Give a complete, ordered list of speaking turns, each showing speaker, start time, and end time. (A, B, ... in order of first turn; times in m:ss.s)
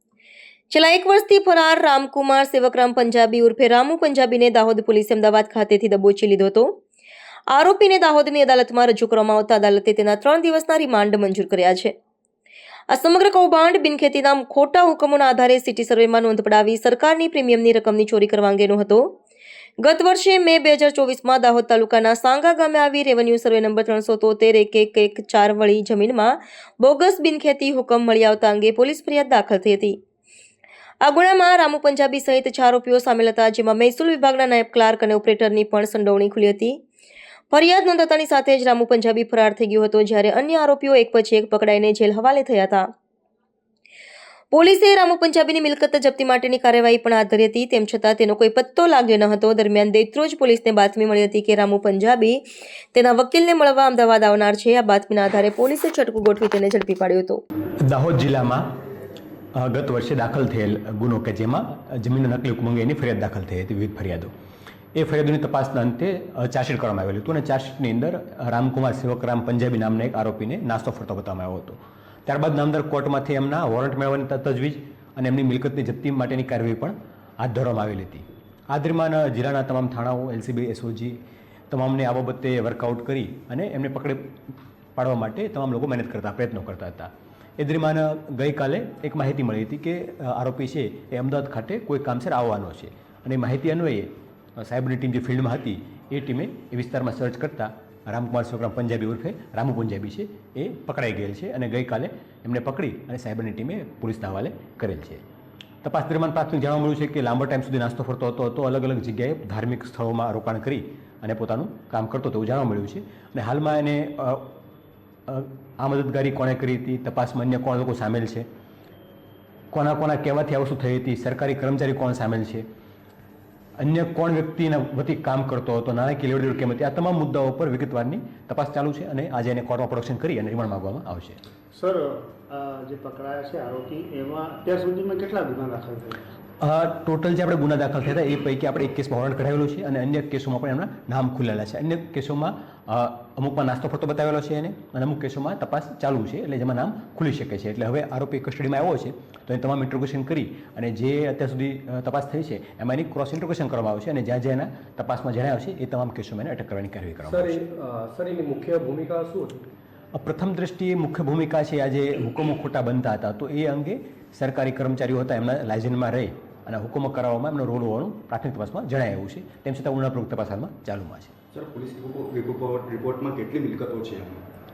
0:00.7-0:06.7 A
0:07.5-0:11.9 A
0:12.9-0:19.2 A
0:19.8-0:30.0 A
0:31.0-0:36.8 A
0:37.5-0:42.9 A
0:44.5-0:52.4 A
0:52.9-0:57.4 A
0:57.8-0:58.7 B
0:59.5-1:04.3 B
1:04.9-1:21.2 B
1:21.7-1:24.3 B
1:25.0-1:45.2 B
1:45.8-1:54.5 B
1:55.3-1:58.4 B
1:59.7-2:02.6 B
2:03.8-2:11.4 B
2:11.7-2:16.2 C
2:16.6-2:37.6 B
2:37.2-2:39.7 D
2:40.1-2:51.3 B
2:51.5-2:54.4 E